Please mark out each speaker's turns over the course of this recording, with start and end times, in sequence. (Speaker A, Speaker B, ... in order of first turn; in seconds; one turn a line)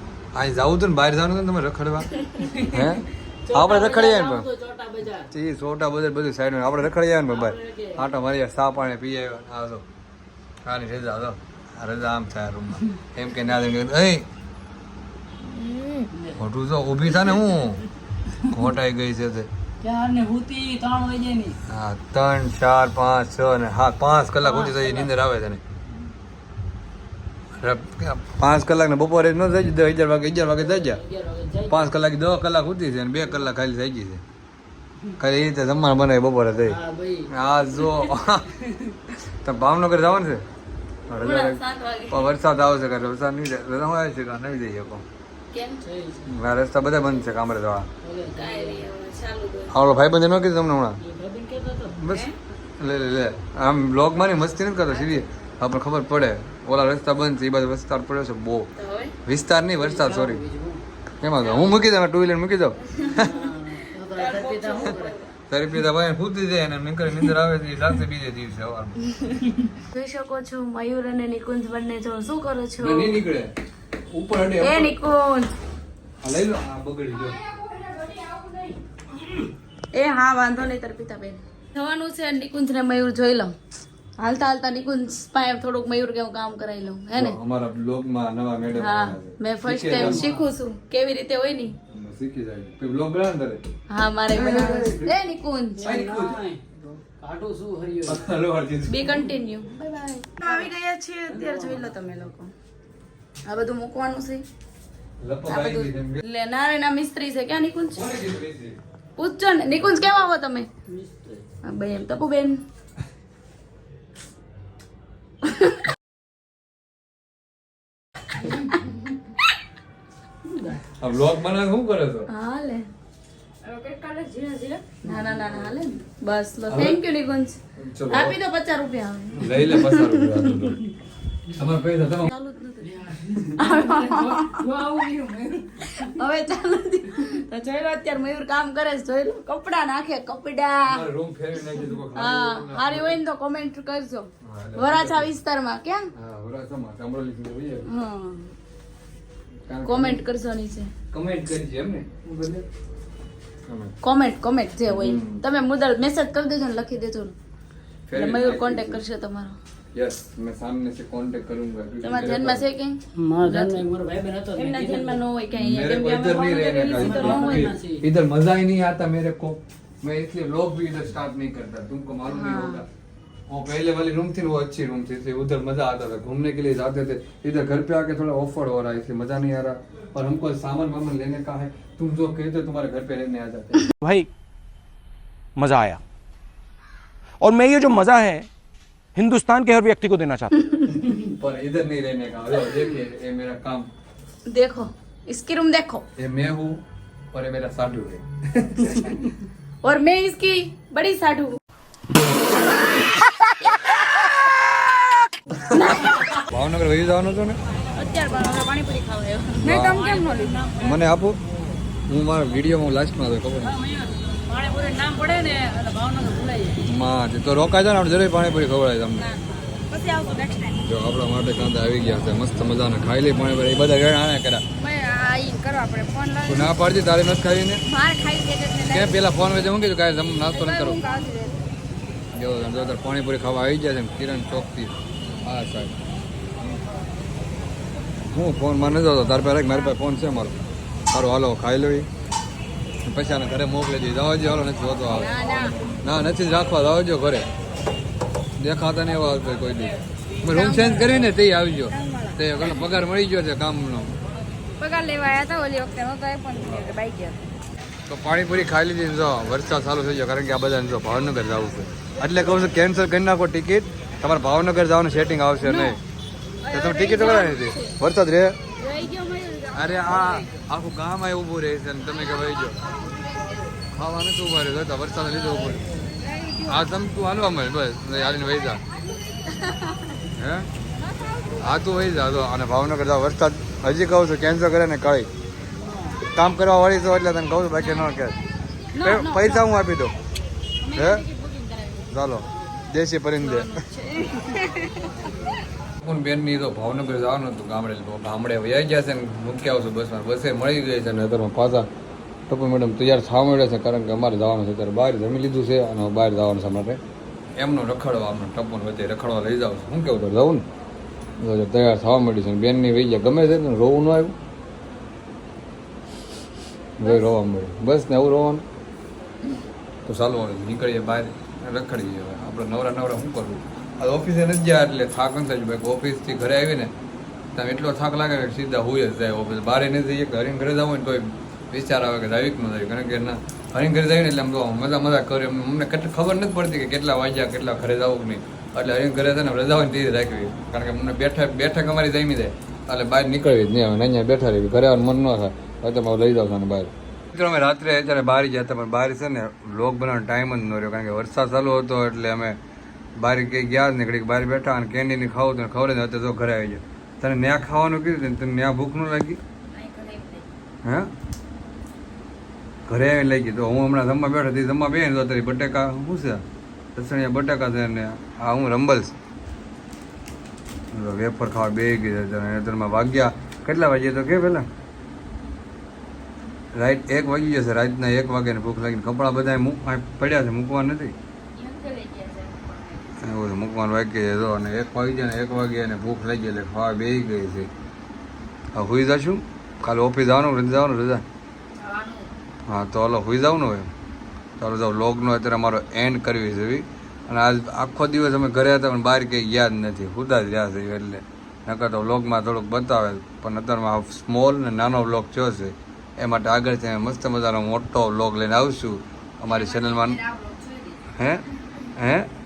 Speaker A: 0.3-2.1
Speaker B: 2.4-5.3
Speaker A: 2.7-4.5
Speaker A: 5.3-9.8
Speaker B: 7.3-8.0
Speaker A: 10.6-14.3
Speaker C: 15.5-16.1
Speaker A: 16.4-17.8
Speaker A: 18.5-19.5
Speaker B: 19.8-21.6
Speaker A: 21.7-25.6
Speaker B: 24.4-25.1
Speaker A: 27.6-31.0
Speaker B: 30.6-31.8
Speaker A: 31.7-34.2
Speaker A: 35.2-36.8
Speaker B: 36.6-37.3
Speaker A: 37.3-38.6
Speaker A: 39.4-40.4
Speaker A: 41.1-45.0
Speaker C: 41.2-42.2
Speaker C: 45.5-45.8
Speaker B: 45.8-46.3
Speaker A: 46.3-47.9
Speaker B: 48.0-48.9
Speaker C: 48.3-49.7
Speaker A: 49.7-51.0
Speaker B: 51.0-52.0
Speaker A: 52.0-58.7
Speaker C: 52.1-52.3
Speaker C: 58.8-59.1
Speaker A: 59.2-60.4
Speaker B: 59.8-60.8
Speaker A: 61.2-63.2
Speaker B: 63.0-65.2
Speaker C: 64.1-65.3
Speaker A: 65.5-69.0
Speaker C: 69.2-73.1
Speaker A: 72.8-73.5
Speaker A: 74.1-75.0
Speaker C: 74.6-75.5
Speaker A: 76.2-77.4
Speaker C: 79.9-83.5
Speaker C: 84.2-87.4
Speaker A: 87.1-90.3
Speaker C: 88.8-91.7
Speaker B: 90.0-90.4
Speaker A: 91.9-93.6
Speaker C: 93.9-95.8
Speaker A: 94.3-95.1
Speaker B: 95.8-98.2
Speaker A: 95.8-96.4
Speaker A: 98.0-99.3
Speaker C: 98.9-102.5
Speaker B: 101.4-101.9
Speaker C: 103.5-104.4
Speaker A: 105.2-106.2
Speaker C: 105.5-108.1
Speaker A: 108.0-108.8
Speaker C: 109.2-110.7
Speaker B: 110.9-111.4
Speaker C: 111.6-112.6
Speaker C: 115.4-115.7
Speaker B: 120.5-120.8
Speaker A: 121.0-122.3
Speaker C: 122.3-122.9
Speaker C: 123.6-127.6
Speaker B: 125.0-125.5
Speaker A: 126.7-127.0
Speaker A: 127.8-128.4
Speaker C: 128.1-130.6
Speaker A: 129.3-130.8
Speaker A: 131.5-132.3
Speaker C: 132.2-132.9
Speaker B: 132.8-136.2
Speaker C: 133.6-134.6
Speaker C: 135.9-141.0
Speaker A: 140.8-143.2
Speaker C: 142.1-146.0
Speaker A: 144.4-145.3
Speaker A: 146.1-147.9
Speaker C: 147.8-148.5
Speaker A: 149.7-150.2
Speaker C: 149.8-150.9
Speaker A: 151.1-152.6
Speaker A: 153.7-153.9
Speaker C: 154.0-157.3
Speaker A: 154.9-155.4
Speaker A: 158.1-159.0
Speaker C: 158.1-159.6
Speaker A: 159.9-162.6
Speaker C: 162.0-163.8
Speaker B: 163.1-165.2
Speaker C: 164.6-167.7
Speaker A: 165.5-172.8
Speaker B: 166.9-168.0
Speaker C: 172.2-172.8
Speaker A: 173.5-183.9
Speaker D: 184.0-184.3
Speaker D: 185.6-186.0
Speaker D: 187.4-188.5
Speaker D: 189.2-190.5
Speaker A: 190.9-193.9
Speaker C: 194.5-196.0
Speaker A: 196.2-196.8
Speaker A: 197.3-199.3
Speaker C: 199.8-201.6
Speaker A: 205.6-207.6
Speaker C: 205.7-206.2
Speaker C: 207.9-210.7
Speaker A: 209.6-210.1
Speaker B: 209.7-211.0
Speaker A: 210.7-211.4
Speaker A: 212.1-213.8
Speaker B: 213.6-216.8
Speaker A: 216.8-219.3
Speaker C: 219.9-220.8
Speaker A: 220.8-224.6
Speaker C: 224.8-226.7
Speaker A: 226.4-227.8
Speaker C: 227.8-229.2
Speaker A: 228.8-231.0
Speaker C: 230.5-231.6
Speaker A: 232.3-235.9
Speaker A: 238.3-240.6
Speaker A: 241.1-242.1
Speaker A: 243.0-245.3
Speaker C: 245.1-245.8
Speaker A: 246.0-247.5
Speaker A: 248.6-254.1
Speaker C: 250.5-251.3
Speaker C: 251.9-252.4
Speaker C: 254.8-257.4
Speaker A: 258.1-266.0
Speaker C: 265.6-266.0
Speaker C: 266.6-268.0
Speaker A: 266.7-268.6
Speaker C: 268.8-270.5
Speaker A: 269.7-272.8
Speaker A: 273.9-275.9
Speaker B: 275.6-276.1
Speaker C: 276.2-276.8
Speaker A: 276.6-278.8
Speaker C: 279.5-280.1
Speaker A: 280.3-280.7
Speaker A: 281.6-285.3
Speaker B: 285.8-286.2
Speaker A: 286.2-288.4
Speaker C: 288.9-289.6
Speaker A: 289.0-290.1
Speaker A: 290.9-291.2
Speaker C: 290.9-291.7
Speaker B: 291.2-292.0
Speaker A: 292.1-293.8
Speaker C: 293.4-295.1
Speaker A: 296.0-301.9
Speaker A: 302.5-307.0
Speaker A: 307.6-310.6
Speaker A: 311.4-314.3
Speaker A: 317.0-318.6
Speaker A: 320.1-326.9
Speaker A: 327.5-352.6
Speaker A: 353.1-359.4
Speaker C: 359.7-360.5
Speaker A: 360.8-361.1
Speaker A: 362.9-366.4
Speaker A: 366.9-369.1
Speaker A: 370.9-374.7
Speaker A: 376.7-381.1
Speaker C: 381.6-383.1
Speaker A: 383.2-387.7
Speaker A: 388.7-391.2
Speaker C: 391.8-392.3
Speaker A: 392.7-393.9
Speaker A: 394.6-410.2
Speaker C: 409.5-411.0
Speaker A: 411.1-411.4
Speaker A: 412.0-412.3